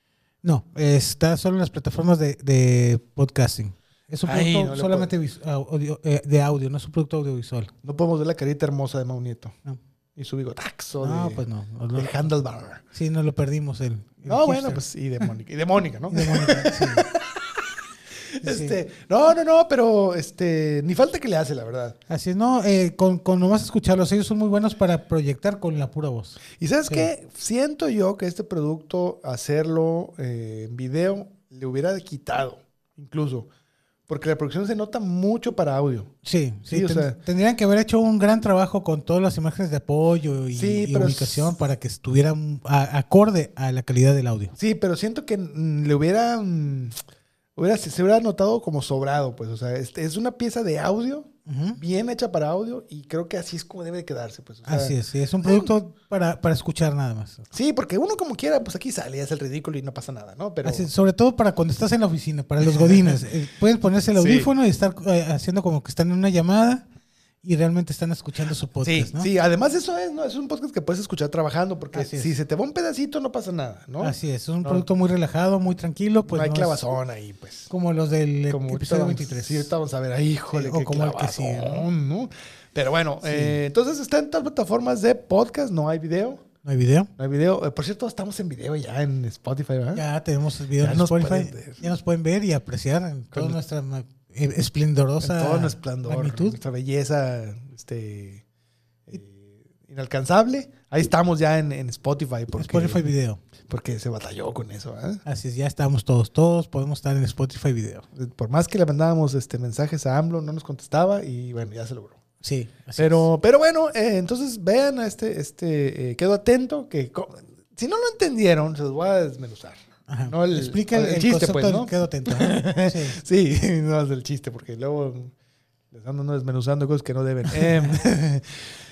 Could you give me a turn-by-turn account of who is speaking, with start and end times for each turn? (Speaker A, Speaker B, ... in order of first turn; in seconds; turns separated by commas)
Speaker A: 0.4-7.7, Speaker B: 4.2-5.1, Speaker B: 7.8-9.6, Speaker B: 10.2-11.4, Speaker A: 11.0-12.2, Speaker B: 11.9-12.8, Speaker A: 12.9-14.8, Speaker B: 14.2-17.6, Speaker A: 16.1-17.1, Speaker B: 18.4-22.0, Speaker A: 18.4-18.8, Speaker A: 22.1-27.1, Speaker B: 26.6-33.5, Speaker B: 34.1-36.1, Speaker A: 36.2-44.5, Speaker B: 36.7-37.2, Speaker B: 40.5-41.5, Speaker B: 44.5-47.0, Speaker B: 47.5-55.7, Speaker A: 51.5-51.8, Speaker A: 54.6-57.5, Speaker B: 57.5-60.9, Speaker A: 60.6-66.8, Speaker B: 62.6-63.2, Speaker B: 64.1-64.5, Speaker A: 67.4-69.3, Speaker B: 68.8-74.8, Speaker A: 71.9-72.3, Speaker A: 74.0-76.9, Speaker B: 76.2-77.7, Speaker A: 77.7-79.7, Speaker B: 78.5-86.4, Speaker A: 80.5-81.9, Speaker A: 83.2-83.6, Speaker A: 86.6-87.1, Speaker B: 87.2-90.0, Speaker A: 89.9-96.6, Speaker B: 90.8-91.8, Speaker B: 93.3-93.6, Speaker B: 95.2-98.4, Speaker B: 99.1-103.0, Speaker A: 102.5-103.4, Speaker B: 103.7-105.2, Speaker A: 105.2-108.0, Speaker B: 108.1-112.2, Speaker A: 112.4-113.3, Speaker B: 113.0-125.3, Speaker A: 120.1-123.2, Speaker B: 125.9-128.5, Speaker A: 127.6-127.9